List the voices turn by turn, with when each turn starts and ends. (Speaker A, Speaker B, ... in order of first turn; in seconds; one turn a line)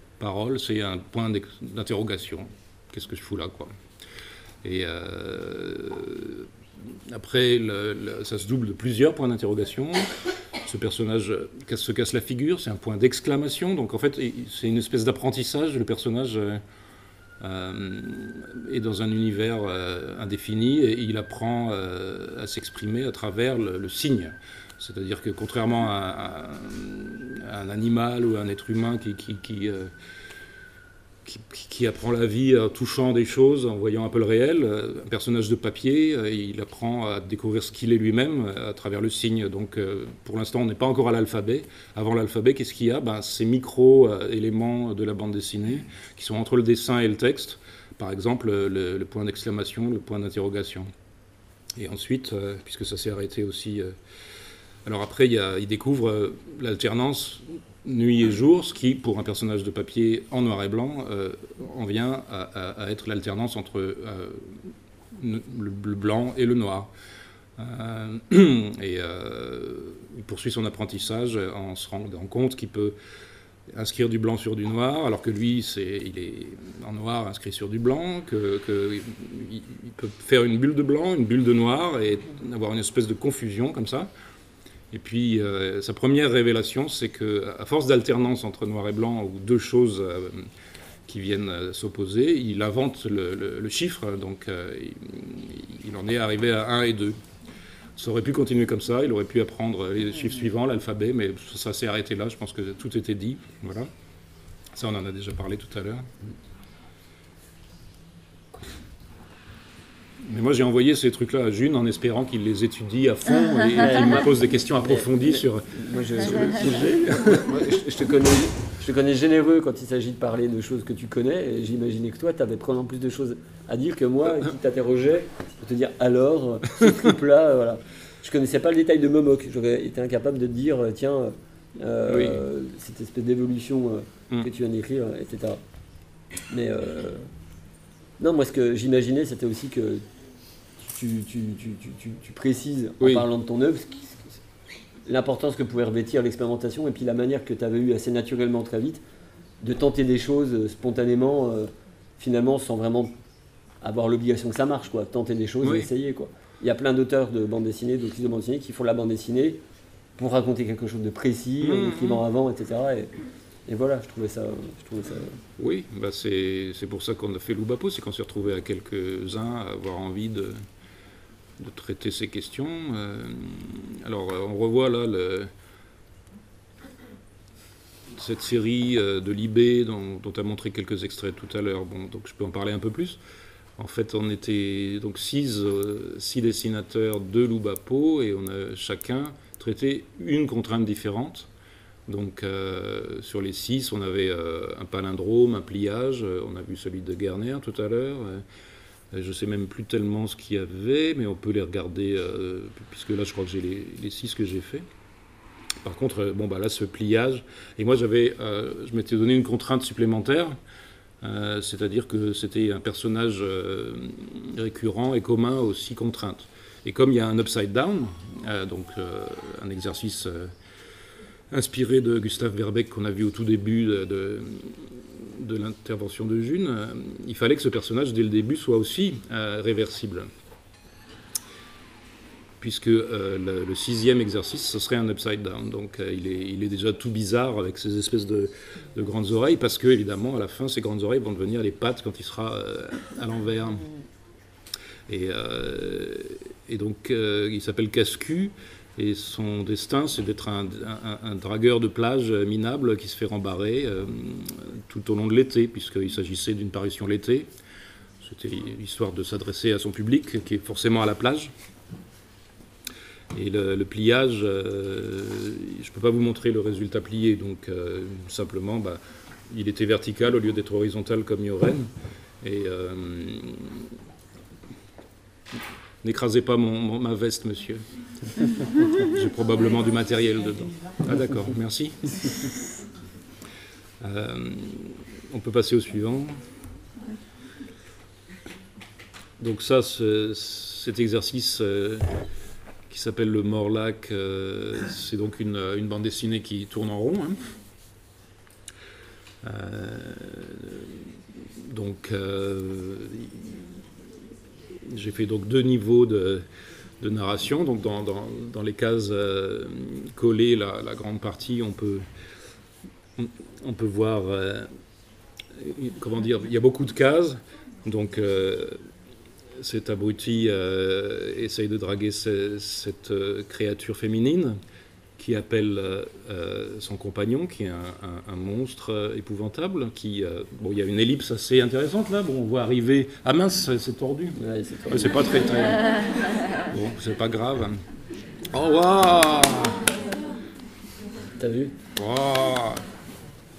Speaker A: 0.2-3.7
Speaker A: 4.6-16.6
Speaker A: 17.4-29.9
Speaker A: 31.2-50.9
Speaker A: 51.8-54.0
Speaker A: 54.9-66.9
Speaker A: 67.6-73.0
Speaker A: 73.7-84.1
Speaker A: 84.9-90.5
Speaker A: 91.1-97.2
Speaker A: 98.0-103.9
Speaker A: 104.7-106.1
Speaker A: 110.2-117.7
Speaker B: 113.8-135.6
Speaker A: 132.1-132.4
Speaker B: 136.5-137.3
Speaker B: 138.2-140.0
Speaker B: 140.8-144.4
Speaker A: 143.0-143.3
Speaker B: 145.1-149.0
Speaker B: 149.6-153.1
Speaker B: 153.8-159.6
Speaker A: 155.6-155.9
Speaker B: 160.2-163.1
Speaker A: 161.6-162.2
Speaker B: 163.7-165.4
Speaker A: 165.6-170.7
Speaker A: 171.6-175.5
Speaker A: 178.1-183.2
Speaker A: 183.8-191.5
Speaker A: 192.1-198.4
Speaker A: 199.1-204.8
Speaker A: 205.8-210.6
Speaker A: 211.2-220.5
Speaker A: 221.5-230.3
Speaker A: 232.6-243.9
Speaker A: 245.1-257.5
Speaker A: 258.2-261.5
Speaker A: 263.3-271.9
Speaker A: 272.4-273.9
Speaker A: 276.0-277.8
Speaker A: 278.4-282.5
Speaker A: 284.0-286.4
Speaker A: 289.4-292.2
Speaker A: 292.9-297.5
Speaker A: 299.4-301.1
Speaker A: 301.7-303.7
Speaker A: 304.8-306.4
Speaker A: 307.0-312.1
Speaker A: 313.2-314.7
Speaker A: 315.5-318.9
Speaker A: 319.6-324.6
Speaker A: 325.2-337.8
Speaker B: 334.4-335.2
Speaker A: 338.5-339.9
Speaker B: 341.4-341.7
Speaker A: 342.0-342.8